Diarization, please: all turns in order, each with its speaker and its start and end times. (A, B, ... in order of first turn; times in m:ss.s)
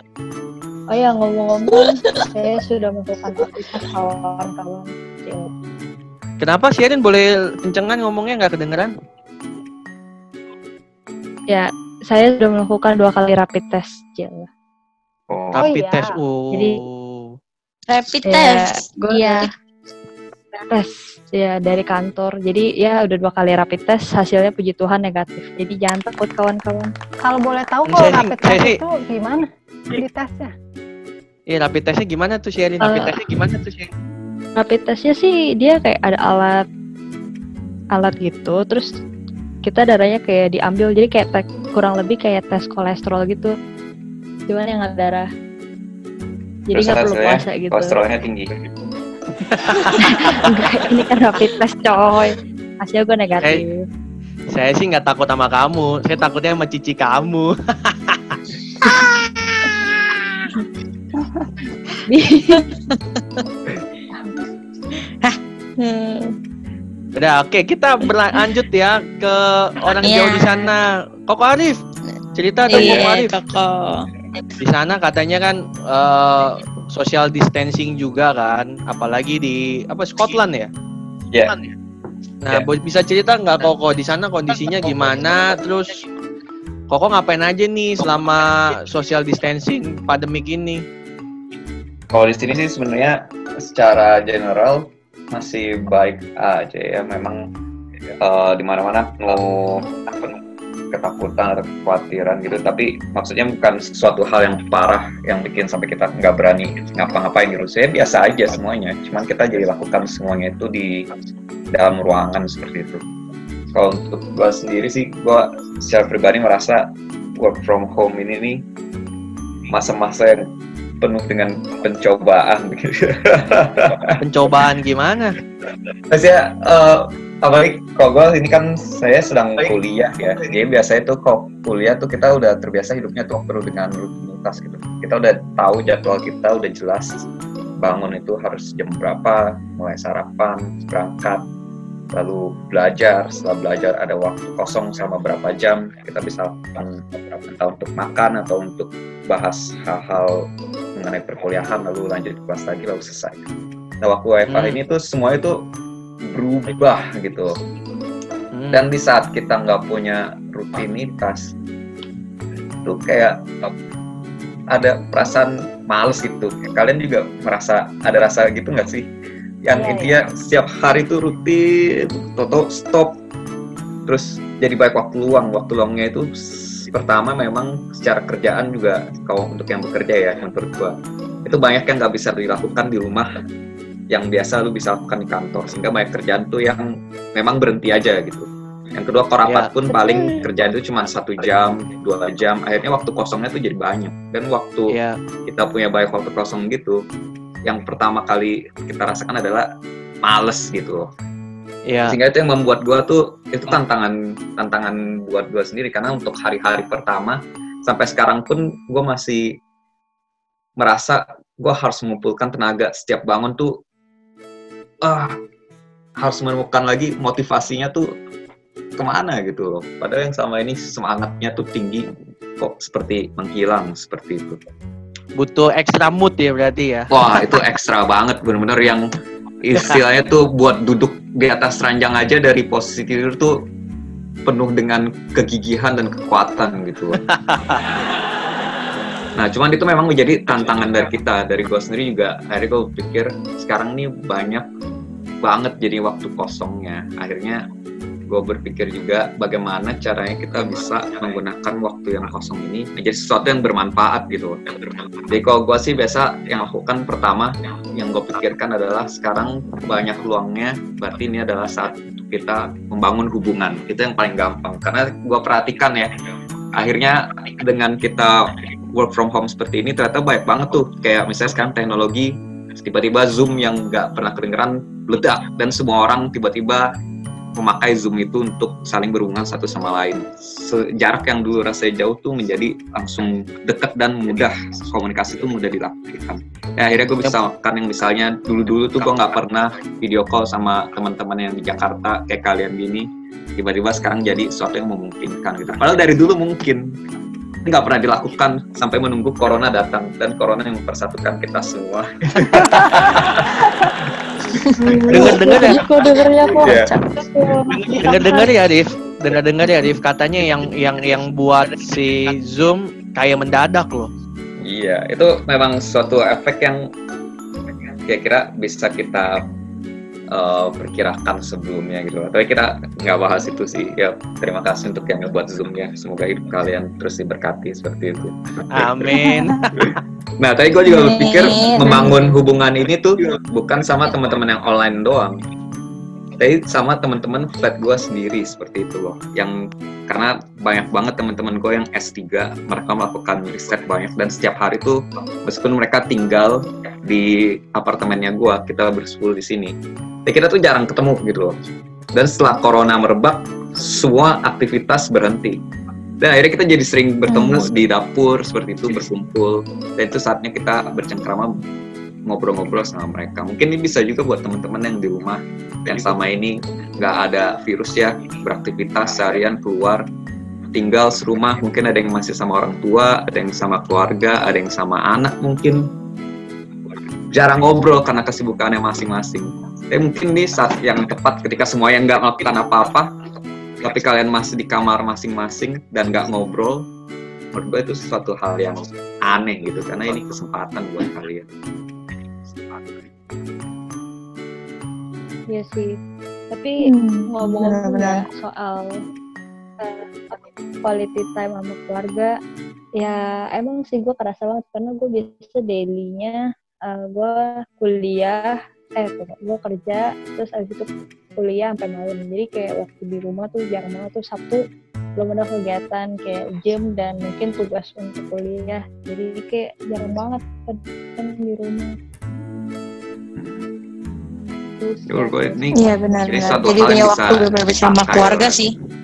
0:00.9-0:05.5 A
0:01.7-0:02.0 B
0:06.4-0:08.9 C
0:11.5-0:14.5 A
0:15.3-0:15.6 D
0:15.5-0:17.3 C
0:15.6-0:16.1 E
0:16.5-0:16.8 A
0:17.9-0:19.5 B
0:18.2-0:19.5 A
0:20.7-0:26.9 A
0:27.2-0:30.5 E
0:27.8-0:28.8 C
0:31.5-0:33.9 C
0:32.8-0:33.3 A
0:34.6-0:36.6 A
0:37.9-0:38.9 A
0:39.6-0:43.5 A
0:44.5-0:45.3 A
0:46.7-0:48.0 A
0:46.7-0:48.6 D
0:49.5-0:50.2 C
0:49.8-0:53.8 A
0:54.5-0:58.4 C
0:58.8-1:00.2 B
1:02.1-1:02.6 A
1:02.4-1:03.0 B
1:05.2-1:06.3 B
1:07.1-1:11.8 C
1:10.0-1:10.7 B
1:12.4-1:13.3 C
1:12.7-1:14.0 B
1:14.6-1:20.7 C
1:22.4-1:26.0 C
1:26.9-1:30.8 C
1:32.1-1:37.5 D
1:38.2-1:40.3 D
1:40.9-1:51.1 D
1:51.7-1:53.0 D
1:53.7-1:58.6 D
1:59.7-2:00.4 D
2:01.0-2:04.2 D
2:04.2-2:05.4 C
2:06.1-2:17.3 D
2:17.8-2:21.4 D
2:22.1-2:33.5 D
2:34.0-2:35.6 D
2:34.5-2:34.8 C
2:36.3-2:37.6 D
2:38.5-2:38.9 C
2:38.7-2:41.5 D
2:42.8-2:43.7 D
2:44.7-2:49.1 D
2:49.6-2:53.2 D
2:54.0-3:03.4 D
3:04.1-3:17.0 D
3:09.4-3:09.7 C
3:14.9-3:15.2 C
3:17.6-3:19.7 D
3:20.2-3:21.1 D
3:21.9-3:22.2 C
3:22.1-3:29.6 D
3:30.8-3:33.7 D
3:35.0-3:35.4 D
3:36.2-3:38.0 D
3:39.0-3:44.6 D
3:45.4-3:47.1 C
3:47.1-3:49.0 D
3:49.6-3:53.6 D
3:54.4-3:57.2 D
3:57.2-3:57.8 C
3:59.4-4:04.6 D
4:05.4-4:07.6 D
4:08.3-4:14.6 D
4:15.2-4:26.2 D
4:26.7-4:36.9 D
4:37.5-4:56.9 D
4:57.6-5:03.7 D
5:04.7-5:07.2 B
5:05.1-5:06.8 A
5:05.1-5:05.8 C
5:06.6-5:06.9 D
5:07.4-5:08.3 A
5:07.8-5:14.1 C
5:14.6-5:16.8 D
5:18.1-5:19.5 D
5:20.3-5:35.4 D
5:28.7-5:29.8 C
5:30.8-5:32.3 B
5:36.4-5:49.7 D
5:50.2-5:51.6 D
5:52.1-5:55.6 D
5:56.2-6:01.5 D
5:57.3-5:57.8 B
6:02.3-6:10.0 D
6:10.7-6:15.8 D
6:17.3-6:23.1 D
6:23.8-6:26.9 D
6:27.5-6:31.4 D
6:35.5-6:36.0 A
6:36.5-6:39.0 A
6:36.8-6:38.2 B
6:39.8-6:42.3 A
6:43.0-6:54.6 A
6:55.2-7:02.0 A
7:03.4-7:03.7 D
7:04.8-7:05.8 A
7:05.1-7:08.6 D
7:05.7-7:08.7 B